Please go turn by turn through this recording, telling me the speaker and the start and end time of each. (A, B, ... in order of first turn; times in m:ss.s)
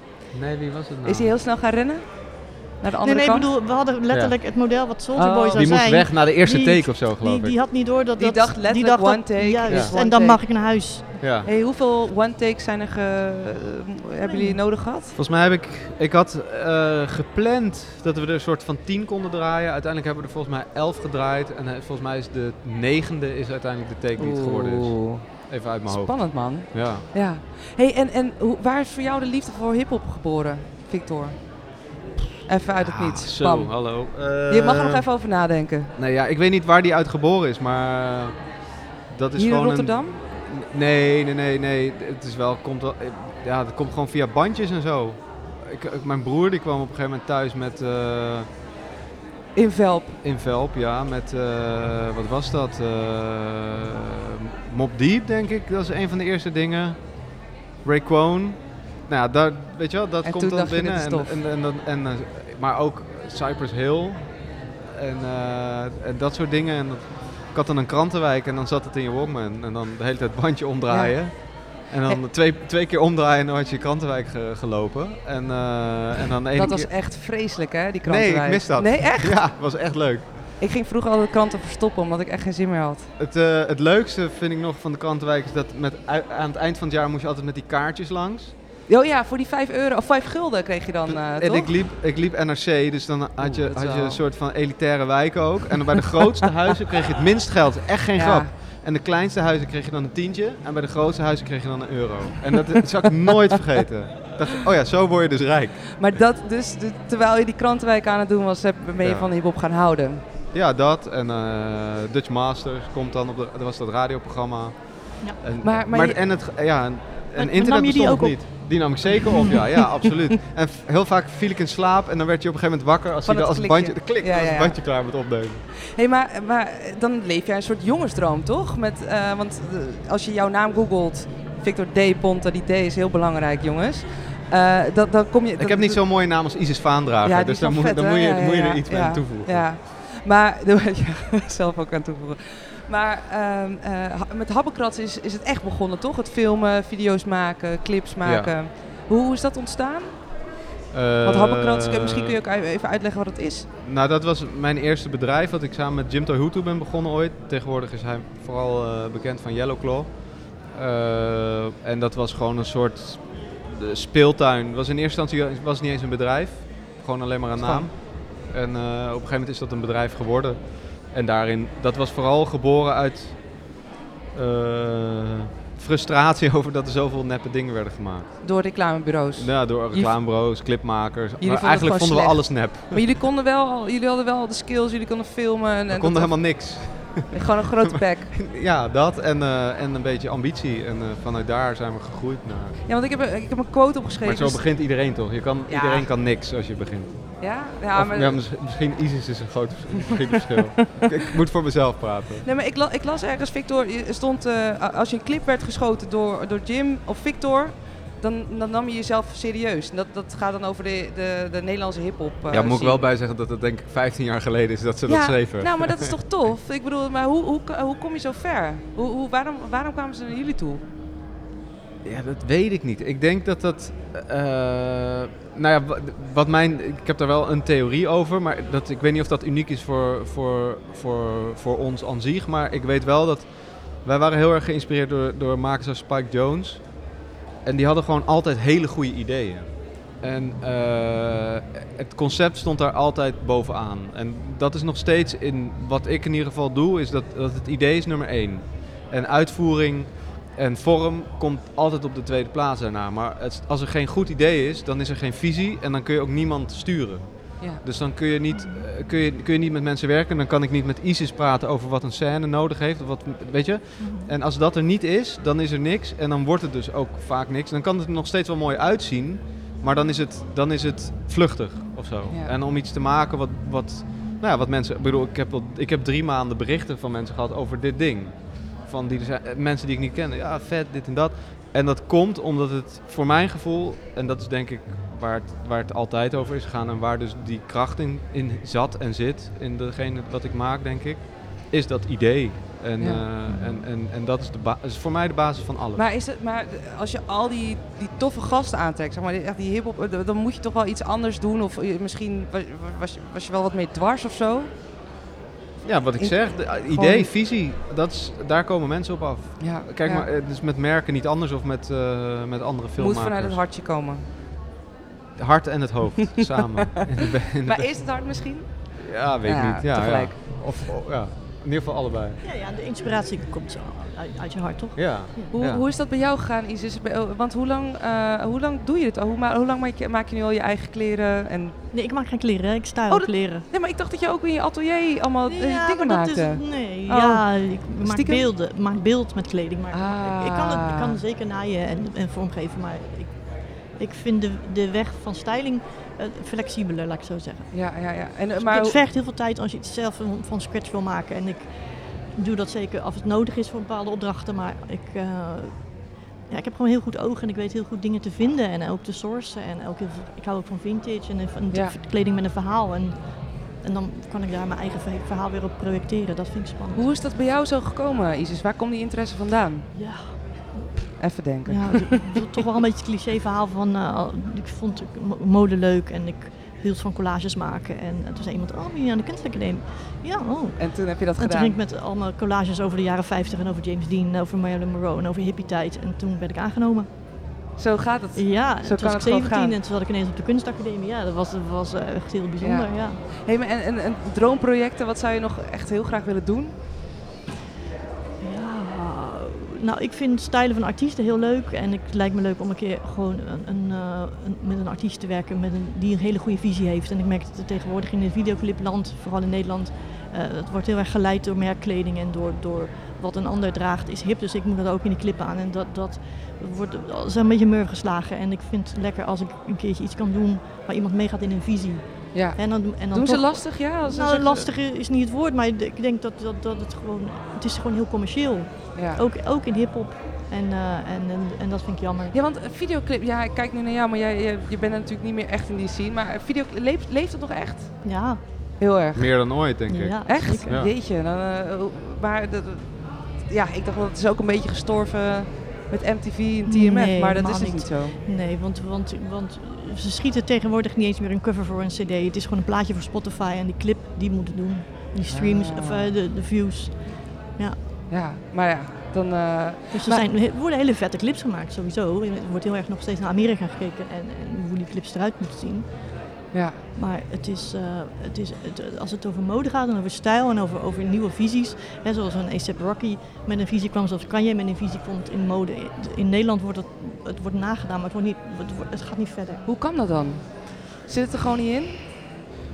0:00.3-0:01.3 A
0:01.0-0:03.5 B
0:03.0-0:11.2 C
0:04.1-0:04.3 A
0:05.1-0:05.7 B
0:05.5-0:07.6 A
0:08.2-0:10.4 B
0:09.7-0:09.9 A
0:11.2-0:11.5 A
0:11.4-0:15.2 B
0:14.2-0:14.6 C
0:15.2-0:27.1 A
0:24.2-0:31.4 B
0:32.4-0:35.9 B
0:32.7-0:35.0 A
0:35.9-0:38.4 A
0:39.1-0:48.5 A
0:39.4-0:40.2 B
0:49.6-0:50.2 B
0:50.2-0:57.0 A
0:57.8-1:04.3 A
1:00.2-1:01.4 B
1:04.9-1:17.0 A
1:10.9-1:12.2 B
1:16.5-1:19.5 B
1:18.0-1:20.3 A
1:20.6-1:23.1 B
1:23.2-1:28.5 A
1:28.9-1:31.7 B
1:31.1-1:46.2 A
1:33.4-1:34.2 B
1:38.2-1:38.5 B
1:45.9-1:50.2 B
1:49.0-1:49.3 A
1:50.5-2:05.6 A
1:55.6-1:56.2 B
1:57.4-1:59.6 C
2:03.2-2:04.8 B
2:05.9-2:16.0 B
2:15.6-2:19.7 A
2:17.2-2:30.3 B
2:28.2-2:28.5 A
2:30.9-2:32.4 A
2:31.2-2:33.7 B
2:33.8-2:53.6 A
2:47.6-2:47.9 B
2:54.3-2:58.3 A
2:58.4-3:00.2 B
2:59.4-3:03.0 A
3:01.4-3:08.3 B
3:05.9-3:12.8 A
3:12.8-3:14.7 B
3:14.2-3:22.4 A
3:15.7-3:16.1 B
3:17.4-3:18.4 B
3:22.4-3:33.0 B
3:32.5-3:36.1 A
3:35.0-3:40.8 B
3:42.0-3:57.0 A
3:57.6-4:56.0 A
4:18.5-4:18.8 C
4:24.0-4:24.3 C
4:53.0-4:53.2 B
4:53.5-4:53.8 C
4:55.9-5:04.7 B
5:05.8-5:13.6 A
5:06.2-5:07.3 B
5:09.6-5:10.3 B
5:13.0-5:14.2 B
5:15.4-5:18.0 A
5:17.6-5:20.6 B
5:19.0-5:22.4 A
5:22.4-5:25.5 C
5:25.0-5:25.8 A
5:25.5-5:31.8 B
5:31.9-5:33.6 C
5:33.1-5:38.5 B
5:35.5-5:43.3 C
5:39.9-5:41.2 B
5:44.0-5:47.9 C
5:47.7-5:49.0 B
5:48.6-5:51.6 C
5:52.3-5:55.8 C
5:56.5-6:03.1 C
6:01.7-6:02.0 B
6:03.8-6:07.1 C
6:07.0-6:09.9 B
6:09.9-6:10.9 C
6:11.2-6:12.6 B
6:11.6-6:27.1 C
6:20.8-6:21.8 B
6:27.8-6:29.8 B
6:28.3-6:33.2 C
6:32.6-6:36.7 B
6:38.4-7:12.3 C
7:02.3-7:02.6 B
7:03.1-7:04.7 B
7:08.9-7:09.2 B
7:12.3-7:18.0 B
7:18.0-7:18.4 C
7:18.8-7:19.5 B
7:19.1-7:20.9 A
7:19.9-7:20.8 C
7:20.2-7:28.2 B
7:26.7-7:37.0 C
7:35.3-7:36.1 B
7:38.1-7:40.2 B
7:39.9-7:45.9 C
7:46.5-7:46.8 B
7:47.0-7:59.6 C
7:59.6-8:02.0 B